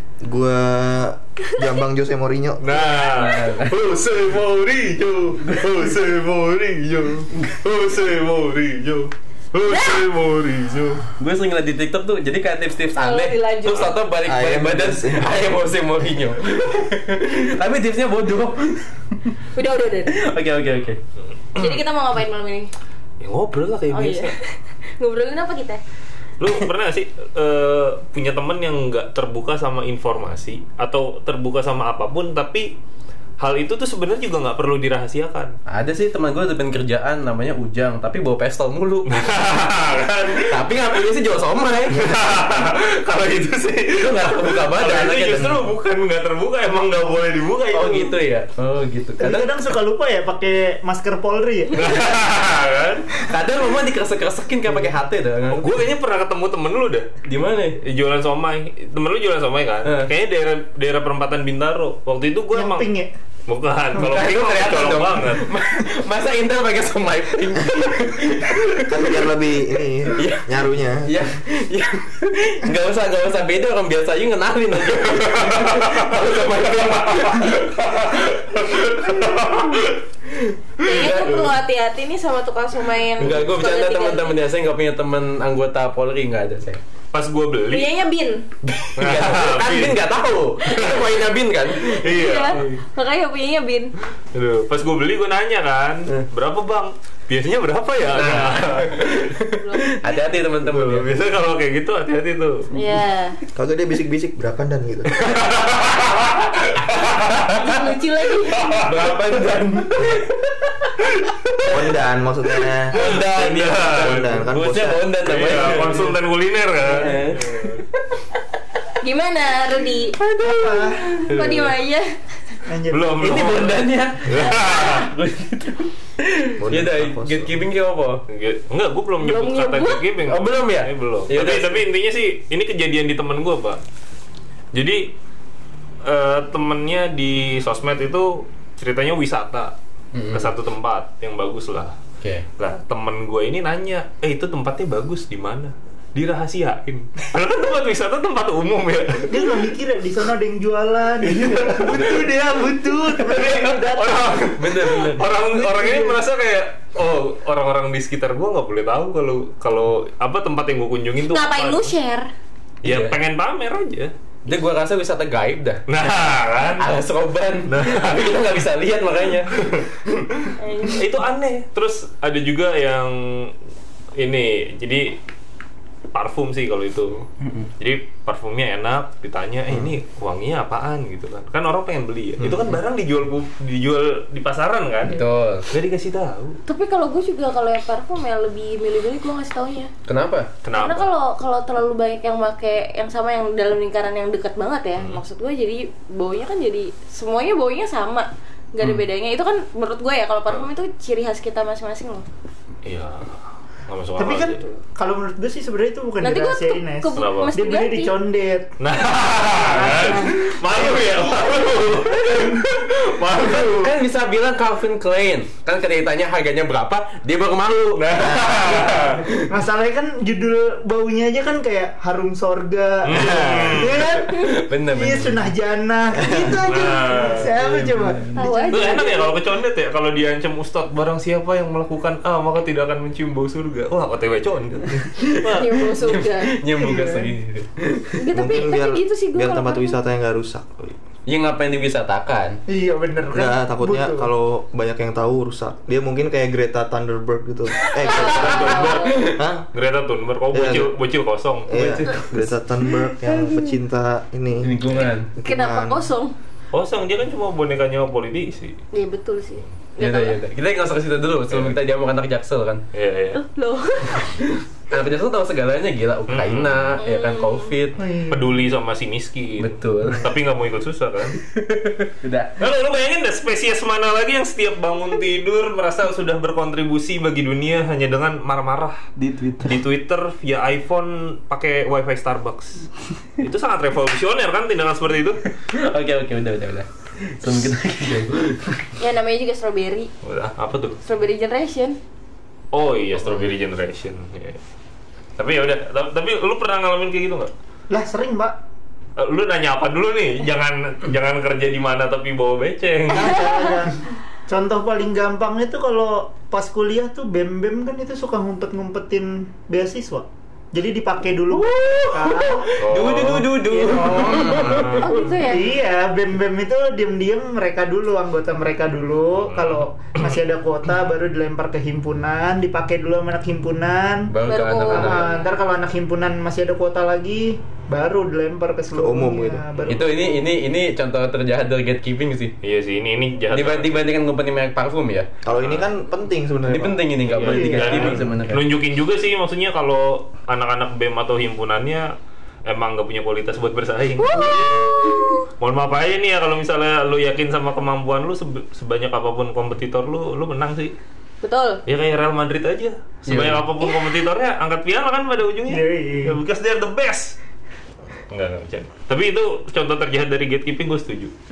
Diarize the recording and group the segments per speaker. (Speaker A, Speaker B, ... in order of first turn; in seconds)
Speaker A: 0.2-2.9, 14.2-15.4, 68.9-71.2, 103.5-105.4, 111.7-113.2, 113.8-115.1, 126.7-127.5, 226.2-226.6, 238.3-240.9, 243.3-248.8, 249.3-249.7, 250.5-250.9, 251.7-254.8, 255.3-256.1, 328.9-329.6, 335.4-337.1, 337.8-338.3
Speaker B: 2.6-11.0, 21.5-21.8, 23.2-24.3, 26.4-32.7, 33.4-35.5, 39.1-40.9, 41.9-48.1, 51.8-53.1, 55.5-57.1, 57.8-62.9, 63.5-65.5, 75.1-80.1, 80.8-81.1, 87.1-87.9, 89.0-90.0, 90.8-91.1, 92.0-92.8, 94.3-99.3, 100.6-102.7, 105.2-107.7, 108.5-109.2, 112.9-114.1, 115.2-117.8, 122.9-125.1, 126.7-127.3, 128.3-133.8, 134.7-135.1, 136.0-139.8, 140.3-142.0, 142.6-149.7, 151.2-162.0, 162.8-164.1, 165.9-166.9, 167.7-168.5, 169.5-169.8, 170.4-173.5, 174.2-175.2, 176.1-177.3, 177.8-185.2, 185.7-186.6, 190.6-191.1, 202.8-204.6, 207.1-207.5, 208.8-213.9, 217.9-219.2, 223.0-224.2, 226.6-227.5, 228.7-235.8, 248.1-251.7, 256.7-258.8, 261.5-261.8, 262.9-263.4, 266.3-266.9, 268.3-271.4, 272.6-279.1, 279.6-285.4, 290.2-291.0, 292.7-294.6, 295.4-297.5, 299.2-303.5, 312.8-315.1, 319.4-320.4, 332.6-334.1, 335.5-335.9, 337.2-342.1, 342.6-344.7, 345.6-350.9, 351.9-357.4, 358.3-361.3
Speaker C: 2.8-3.6, 9.7-10.0, 12.9-13.9, 19.5-20.1, 21.6-22.7, 23.9-25.8, 80.8-84.4, 87.7-88.5, 90.6-91.1, 91.7-93.9, 99.5-100.3, 102.7-103.4, 107.6-108.8, 119.0-120.2, 121.1-122.1, 129.2-130.1, 161.3-162.3, 170.6-171.0, 186.7-189.9, 190.7-202.2, 206.2-208.1, 209.8-210.1, 211.1-212.1, 228.3-229.3, 235.3-236.6, 238.2-240.0, 248.0-249.3, 255.4-256.3, 258.9-260.4, 263.3-264.4, 267.0-267.7, 289.0-290.1, 291.0-292.0, 315.0-315.8, 324.4-325.5, 344.2-345.5, 351.4-351.8
Speaker D: 3.2-3.8, 5.4-5.8, 11.2-18.9, 20.1-21.0, 35.7-39.3, 40.4-42.2, 44.0-45.7, 47.7-49.5, 53.3-55.9, 57.2-57.8, 59.8-60.1, 64.0-69.2, 70.1-77.7, 80.8-81.5, 83.2-86.8, 88.6-92.8, 98.1-101.1, 107.5-108.0, 108.7-110.9, 112.9-116.2, 116.8-118.2, 120.2-121.8, 123.2-128.2, 130.2-131.8, 140.1-140.5, 154.5-155.3, 162.8-163.2, 164.4-165.8, 166.8-169.5, 185.1-185.7, 190.1-190.5, 213.4-219.5, 223.8-225.5, 227.6-228.3, 235.2-238.2, 241.3-242.6, 249.1-249.4, 251.7-252.5, 254.6-255.3, 260.0-262.8, 264.2-268.0, 269.6-270.3, 271.4-272.6, 279.2-279.8, 285.7-288.9, 311.5-315.1, 324.3-325.3, 329.9-332.5, 333.5-335.3, 336.7-338.7, 353.3-353.7
Speaker E: 49.2-51.9, 62.5-63.1, 120.4-121.1, 122.7-123.5, 149.3-154.4, 155.4-156.2, 204.2-208.7, 209.4-211.5, 212.1-212.6, 219.0-229.1, 236.8-237.3, 242.7-244.3, 268.0-268.6, 297.9-298.6, 303.1-312.7, 313.6-324.3, 324.9-330.5, 337.4-338.1, 355.7-356.4